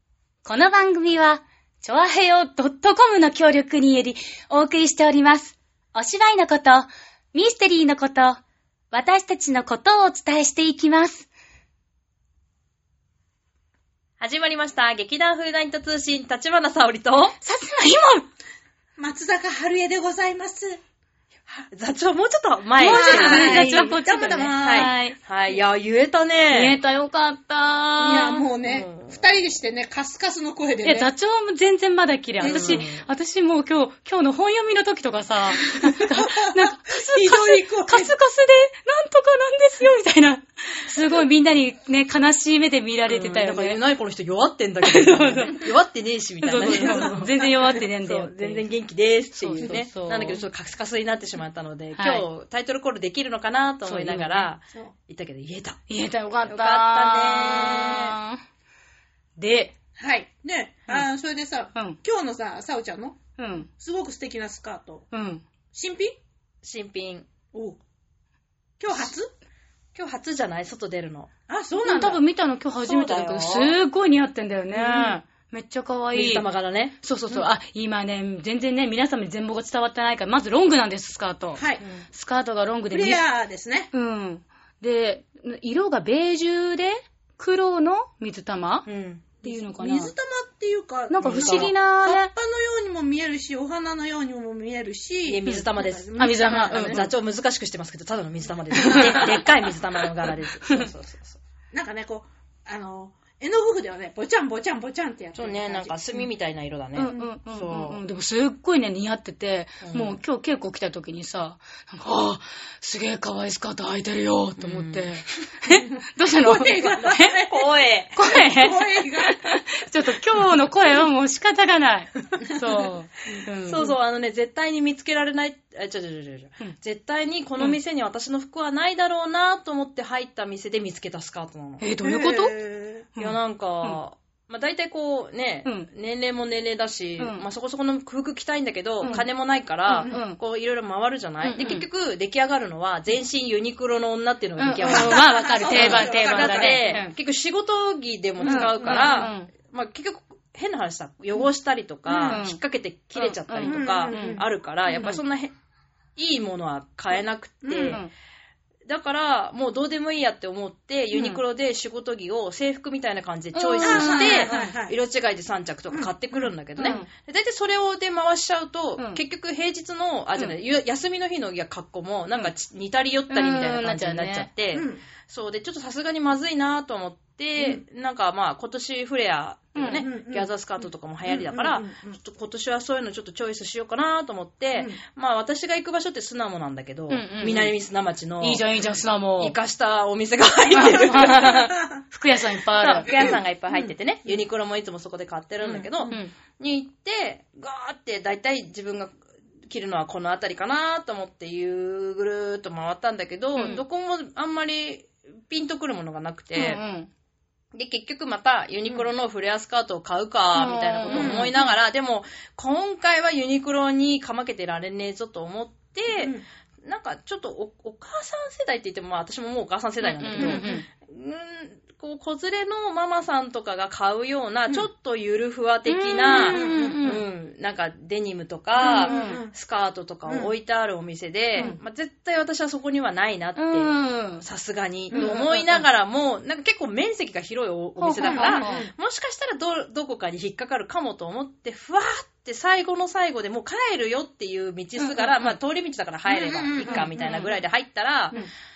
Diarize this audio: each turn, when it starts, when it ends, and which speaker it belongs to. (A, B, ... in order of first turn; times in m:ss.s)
0:00.4-0:11.3 A
0:14.2-0:17.4 B
0:17.4-0:18.3 A
0:19.0-0:20.8 C
0:21.5-0:24.0 B
0:22.8-0:25.2 A
0:22.8-0:25.0 C
0:24.5-0:26.8 B
0:26.5-0:28.4 A
0:28.0-0:31.1 C
0:28.6-0:29.2 B
0:30.8-0:43.8 A
0:32.4-0:33.0 B
0:32.4-0:32.9 C
0:35.8-0:38.1 C
0:43.1-0:55.8 B
0:44.8-0:45.7 A
0:46.4-0:48.7 A
0:46.8-0:47.5 C
0:49.4-0:50.4 A
0:52.0-0:52.3 A
0:53.8-0:54.5 A
0:55.9-0:58.4 A
0:56.5-0:58.2 B
0:57.6-0:58.0 C
0:59.4-0:59.8 A
1:00.0-1:03.2 C
1:03.4-1:03.7 A
1:03.8-1:05.1 C
1:05.1-1:05.4 A
1:05.7-1:06.1 C
1:06.6-1:07.3 B
1:07.5-1:07.8 C
1:08.8-1:09.3 C
1:10.0-1:11.3 B
1:11.5-1:12.2 C
1:11.8-1:16.5 A
1:12.8-1:13.8 B
1:14.8-1:15.2 C
1:16.1-1:17.4 B
1:17.0-1:23.2 A
1:21.6-1:21.8 C
1:21.8-1:22.1 B
1:22.9-1:23.9 C
1:23.9-1:28.9 A
1:28.9-1:29.3 B
1:29.4-1:30.1 A
1:29.4-1:37.1 C
1:31.1-1:32.3 A
1:31.2-1:31.7 B
1:35.2-1:41.4 B
1:36.2-1:37.0 A
1:38.7-1:39.4 A
1:38.8-1:39.4 C
1:41.7-1:46.3 C
1:45.4-1:48.0 B
1:47.0-1:57.3 A
1:49.8-1:50.2 B
1:54.6-1:55.1 B
1:56.4-1:59.4 C
1:57.5-1:58.2 B
1:58.2-2:03.9 A
2:02.7-2:03.4 C
2:03.6-2:11.9 B
2:11.8-2:12.6 A
2:12.0-2:13.1 C
2:13.1-2:14.0 A
2:13.2-2:35.5 B
2:15.6-2:15.9 A
2:19.9-2:20.4 A
2:21.4-2:21.9 A
2:24.6-2:27.1 A
2:24.8-2:27.0 C
2:28.4-2:29.3 C
2:28.4-2:29.5 A
2:32.1-2:32.4 C
2:32.2-2:32.6 A
2:33.2-2:34.4 A
2:33.6-2:35.2 C
2:36.2-2:38.0 B
2:37.6-2:38.0 C
2:38.9-3:08.7 B
2:41.1-2:41.4 A
2:43.5-2:44.7 A
2:43.8-2:45.0 C
2:45.9-2:46.5 C
2:46.8-2:47.1 A
2:53.3-2:54.5 A
2:54.7-2:55.0 C
2:57.6-2:57.8 C
2:59.8-3:00.0 A
2:59.9-3:00.5 C
3:01.2-3:02.2 C
3:07.1-3:07.8 A
3:08.4-3:09.6 A
3:09.4-3:11.7 B
3:10.7-3:13.4 A
3:11.2-3:11.8 C
3:12.8-3:19.2 B
3:13.1-3:14.4 C
3:15.6-3:16.2 C
3:19.7-3:26.8 B
3:23.6-3:23.8 A
3:26.6-3:27.1 A
3:27.7-4:08.4 B
3:30.6-3:31.6 A
3:31.1-3:31.5 C
3:36.2-3:36.4 C
3:40.0-3:40.9 A
3:40.3-3:40.8 C
3:45.9-3:47.2 A
3:46.3-3:47.0 C
3:48.8-3:49.5 C
3:48.8-3:49.4 A
3:50.3-3:50.5 C
3:53.6-3:54.4 A
3:55.1-3:55.6 C
3:55.1-3:55.8 A
3:58.0-3:58.9 A
3:58.2-3:58.9 C
4:05.0-4:05.6 A
4:06.3-4:07.1 C
4:06.9-4:07.5 A